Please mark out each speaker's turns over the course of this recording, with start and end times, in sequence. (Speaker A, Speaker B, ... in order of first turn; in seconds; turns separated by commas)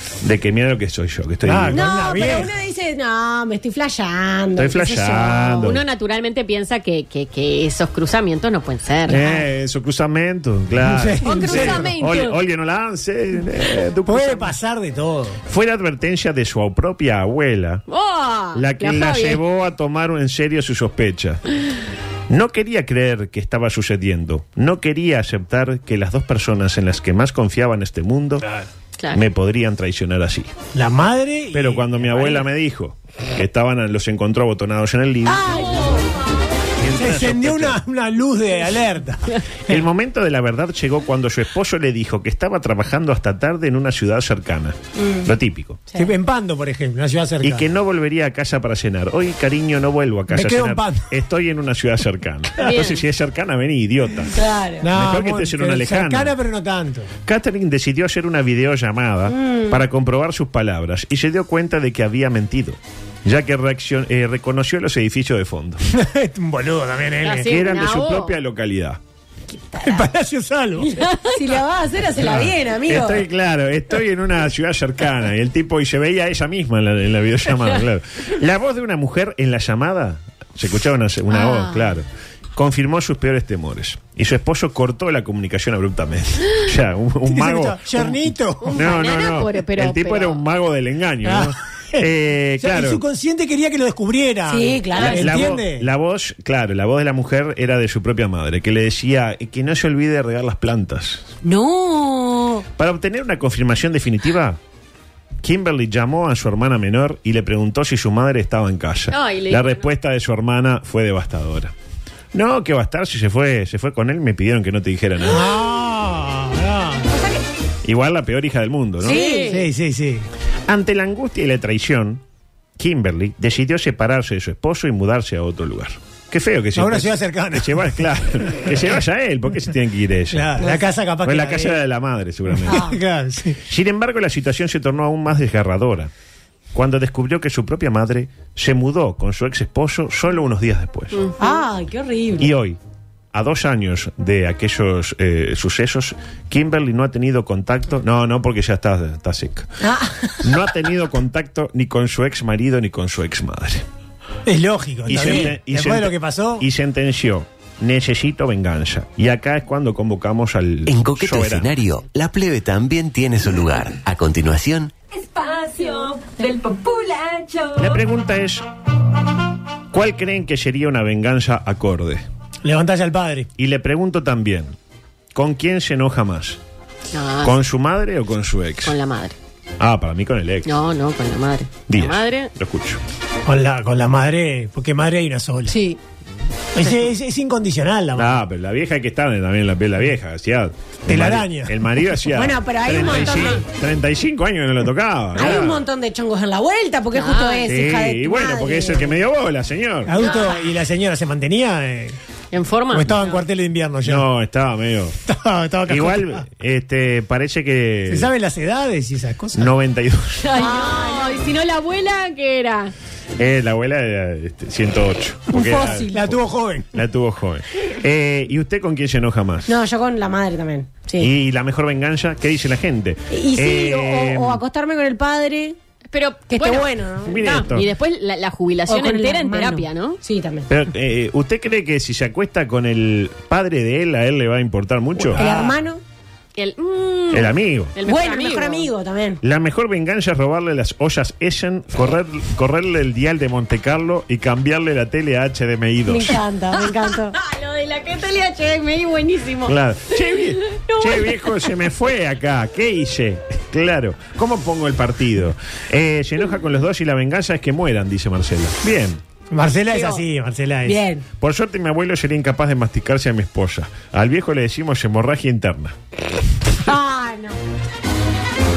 Speaker A: 0.2-1.8, Speaker B: 1.4-2.5, Speaker C: 1.7-5.7, Speaker A: 4.6-5.8, Speaker D: 5.6-9.4, Speaker A: 9.1-14.5, Speaker B: 10.8-11.9, Speaker D: 11.2-12.4, Speaker B: 14.0-15.4, Speaker A: 15.5-17.8, Speaker D: 17.9-19.4, Speaker A: 18.5-21.4, Speaker A: 22.3-28.5, Speaker A: 29.1-30.5, Speaker B: 30.7-32.5, Speaker A: 31.5-35.7, Speaker C: 35.3-36.1, Speaker A: 36.8-37.8, Speaker B: 36.9-39.9, Speaker A: 39.7-45.8, Speaker C: 45.0-45.3, Speaker B: 46.0-47.7, Speaker A: 47.4-54.4, Speaker B: 50.3-51.1, Speaker D: 52.6-53.0, Speaker C: 54.3-54.9, Speaker B: 54.8-57.1, Speaker A: 54.9-56.3, Speaker A: 57.2-65.8, Speaker C: 59.3-59.8, Speaker B: 65.9-67.5, Speaker D: 67.2-68.3, Speaker A: 67.4-69.0, Speaker C: 69.5-70.0, Speaker B: 69.8-71.0, Speaker C: 70.8-73.2, Speaker A: 72.2-93.0, Speaker D: 81.3-81.7, Speaker B: 87.2-88.9, Speaker D: 88.6-90.4, Speaker B: 91.2-95.9, Speaker C: 94.5-95.4, Speaker A: 95.0-101.3, Speaker C: 101.4-102.6, Speaker A: 102.8-104.6, Speaker A: 105.4-111.7, Speaker D: 109.1-109.9, Speaker A: 112.3-115.5, Speaker B: 115.2-117.2, Speaker A: 117.8-119.3, Speaker C: 119.0-119.5, Speaker D: 119.0-119.7, Speaker B: 119.1-120.3, Speaker A: 120.7-122.2, Speaker A: 122.8-130.7, Speaker B: 126.7-128.8, Speaker B: 130.3-131.8, Speaker A: 131.2-132.8, Speaker B: 132.5-133.6, Speaker C: 132.7-133.0, Speaker A: 133.6-136.1, Speaker A: 136.7-141.2, Speaker D: 141.1-141.6, Speaker C: 141.4-142.5, Speaker A: 142.4-142.8, Speaker A: 143.3-149.7, Speaker C: 149.8-150.5, Speaker A: 150.4-153.8, Speaker B: 154.4-156.7, Speaker A: 155.1-161.7, Speaker E: 160.8-164.9, Speaker A: 167.8-168.6, Speaker A: 169.9-172.2, Speaker B: 172.6-173.5, Speaker A: 173.6-174.7, Speaker A: 175.3-176.6, Speaker D: 177.1-177.6, Speaker A: 177.4-178.9, Speaker D: 178.8-179.3, Speaker A: 179.8-180.8, Speaker D: 180.6-182.5, Speaker A: 181.9-183.0, Speaker B: 183.4-185.7, Speaker C: 185.7-186.0, Speaker B: 186.7-188.4, Speaker A: 188.1-195.8, Speaker B: 191.1-191.8, Speaker C: 192.3-193.6, Speaker C: 195.3-199.1, Speaker D: 197.1-197.7, Speaker A: 197.7-200.1, Speaker B: 200.1-202.2, Speaker C: 200.2-200.5, Speaker D: 202.5-203.4, Speaker B: 202.9-204.3, Speaker A: 204.0-205.2, Speaker B: 205.2-206.4, Speaker A: 205.9-208.3, Speaker B: 208.1-209.7, Speaker A: 209.5-210.5, Speaker D: 210.4-212.9, Speaker C: 210.5-211.3, Speaker A: 213.4-216.4, Speaker C: 215.5-216.3, Speaker B: 215.8-217.0, Speaker A: 216.9-219.7, Speaker C: 219.7-221.3, Speaker A: 221.2-224.6, Speaker C: 223.3-225.8, Speaker D: 226.1-230.2, Speaker C: 226.5-227.4, Speaker A: 227.2-227.9, Speaker C: 228.9-230.7, Speaker A: 230.7-235.4, Speaker B: 235.2-235.8, Speaker C: 235.3-236.0, Speaker D: 236.6-238.9, Speaker A: 237.3-237.9, Speaker C: 238.0-239.4, Speaker A: 239.4-246.4, Speaker C: 246.1-247.3, Speaker D: 246.8-251.7, Speaker A: 249.7-259.2, Speaker B: 259.5-261.0, Speaker C: 260.9-261.2, Speaker A: 261.4-265.9, Speaker C: 266.8-267.6